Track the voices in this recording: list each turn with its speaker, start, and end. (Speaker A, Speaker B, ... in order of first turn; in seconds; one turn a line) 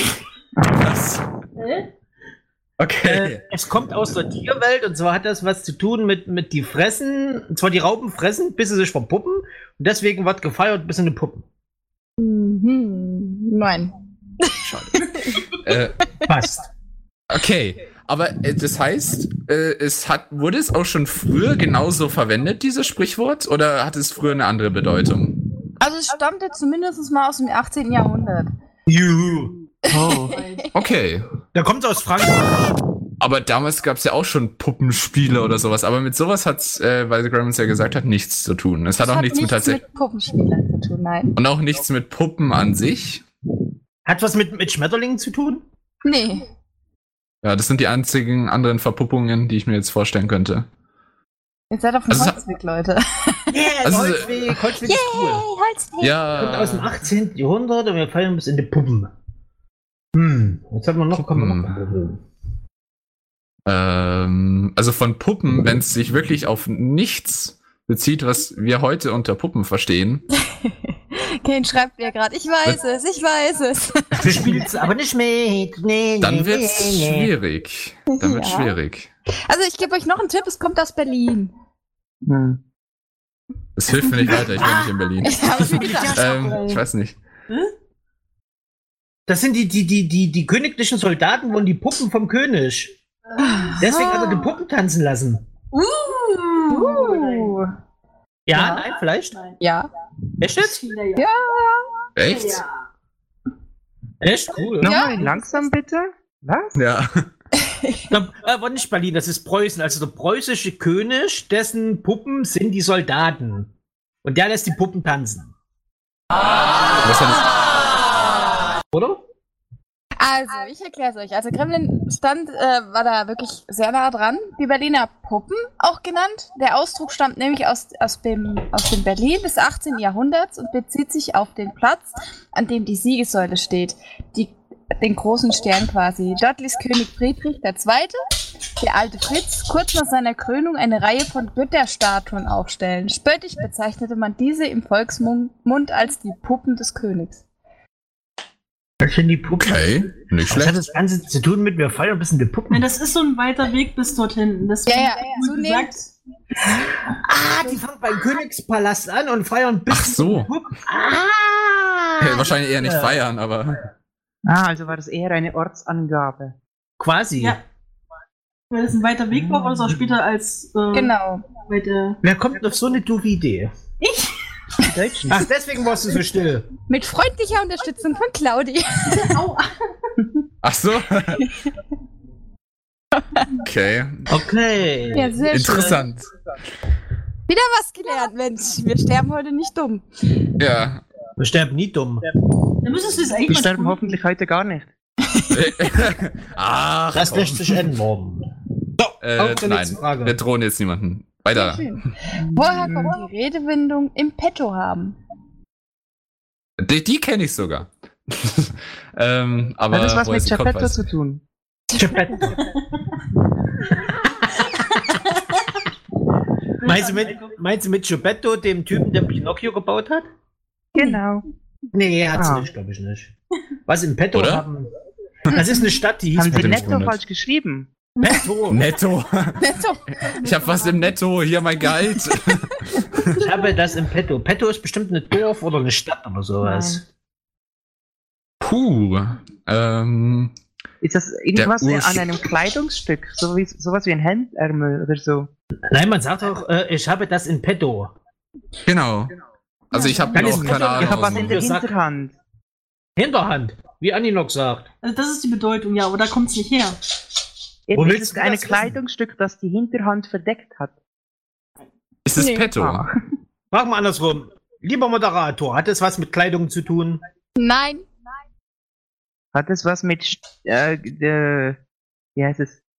Speaker A: 0.6-1.3
Speaker B: 1.6-1.9
Speaker A: 2.8-3.4
Speaker C: 3.0-11.4
Speaker D: 12.2-16.3
Speaker A: 14.6-14.9
Speaker A: 15.5-15.9
Speaker C: 16.3-16.7
Speaker A: 17.3-25.4
Speaker D: 25.8-28.5
Speaker C: 28.9-29.5
Speaker D: 29.9-30.6
Speaker A: 30.0-31.2
Speaker B: 30.3-30.7
Speaker C: 31.5-32.8
Speaker A: 33.2-39.8
Speaker D: 39.0-41.3
Speaker A: 41.4-43.2
Speaker C: 44.0-45.6
Speaker D: 46.0-46.4
Speaker A: 47.4-50.7
Speaker D: 51.7-53.6
Speaker A: 52.1-52.4
Speaker C: 53.5-55.4
Speaker A: 53.8-54.3
Speaker D: 54.8-56.2
Speaker A: 56.0-56.9
Speaker C: 56.3-59.1
Speaker C: 60.1-62.2
Speaker A: 61.1-61.8
Speaker A: 63.6-70.2
Speaker D: 70.5-74.7
Speaker C: 74.2-77.3
Speaker A: 76.2-79.1
Speaker D: 78.1-78.7
Speaker D: 79.5-81.5
Speaker E: 82.2-82.6
Speaker A: 83.8-87.2
Speaker C: 84.3-86.8
Speaker D: 85.2-86.2
Speaker C: 89.3-92.9
Speaker B: 93.3-94.5
Speaker D: 93.4-94.4
Speaker C: 93.8-95.4
Speaker B: 95.7-97.5
Speaker D: 96.7-97.7
Speaker C: 98.5-99.3
Speaker D: 98.5-98.8
Speaker B: 99.3-99.6
Speaker D: 99.6-99.9
Speaker C: 100.4-100.8
Speaker B: 100.6-101.2
Speaker D: 101.2-102.0
Speaker A: 102.2-102.6
Speaker B: 102.2-102.8
Speaker C: 104.2-105.3
Speaker E: 104.8-106.8
Speaker D: 104.8-105.4
Speaker A: 106.8-107.3
Speaker D: 107.6-108.0
Speaker C: 108.1-113.7
Speaker C: 114.2-115.5
Speaker A: 117.0-118.0
Speaker C: 118.9-119.2
Speaker D: 120.2-138.2
Speaker D: 138.8-147.4
Speaker C: 149.0-149.8
Speaker A: 149.6-150.8
Speaker C: 150.5-152.8
Speaker B: 152.7-156.0
Speaker D: 154.8-155.9
Speaker C: 157.2-163.2
Speaker A: 159.9-160.5
Speaker A: 162.2-163.8
Speaker E: 164.4-166.6
Speaker C: 167.0-167.6
Speaker B: 168.7-171.1
Speaker D: 170.9-171.4
Speaker B: 171.7-172.2
Speaker C: 172.2-173.7
Speaker B: 174.0-174.3
Speaker E: 174.9-175.4
Speaker C: 175.2-176.7
Speaker D: 176.9-179.3
Speaker B: 179.1-179.7
Speaker A: 180.6-181.5
Speaker A: 183.5-184.3
Speaker C: 184.3-185.3
Speaker D: 185.1-186.0
Speaker A: 185.5-186.3
Speaker D: 187.5-190.1
Speaker A: 190.6-191.0
Speaker C: 191.4-192.2
Speaker B: 192.8-194.2
Speaker E: 193.5-194.9
Speaker A: 195.5-197.6
Speaker C: 197.1-198.4
Speaker C: 199.0-200.4
Speaker A: 199.2-201.9
Speaker D: 201.5-205.2
Speaker E: 202.4-203.2
Speaker A: 206.8-211.0
Speaker E: 209.9-211.4
Speaker D: 211.9-212.4
Speaker C: 211.9-212.6
Speaker B: 212.5-212.8
Speaker C: 214.1-214.7
Speaker B: 215.3-215.7
Speaker B: 216.8-217.6
Speaker C: 216.8-220.3
Speaker E: 220.9-221.4
Speaker C: 221.9-223.3
Speaker E: 222.3-222.7
Speaker C: 223.8-224.9
Speaker A: 224.3-224.7
Speaker C: 225.5-227.0
Speaker E: 226.3-227.9
Speaker A: 226.5-227.2
Speaker B: 228.2-228.5
Speaker C: 228.2-228.8
Speaker A: 228.7-229.7
Speaker D: 229.6-230.1
Speaker A: 230.4-233.4
Speaker B: 230.4-231.1
Speaker D: 232.4-232.7
Speaker C: 233.3-237.0
Speaker A: 238.6-240.6
Speaker E: 241.0-245.5
Speaker A: 241.5-242.3
Speaker C: 245.9-248.2
Speaker A: 248.8-249.3
Speaker A: 249.9-251.7
Speaker B: 249.9-250.5
Speaker E: 250.2-252.3
Speaker C: 250.3-251.9
Speaker C: 253.2-254.9
Speaker B: 255.0-257.0
Speaker E: 257.9-260.9
Speaker C: 257.9-259.0
Speaker A: 262.2-263.1
Speaker D: 262.4-262.7
Speaker E: 262.7-263.1
Speaker C: 263.7-267.2
Speaker D: 267.6-268.0
Speaker E: 269.5-271.8
Speaker E: 272.4-272.8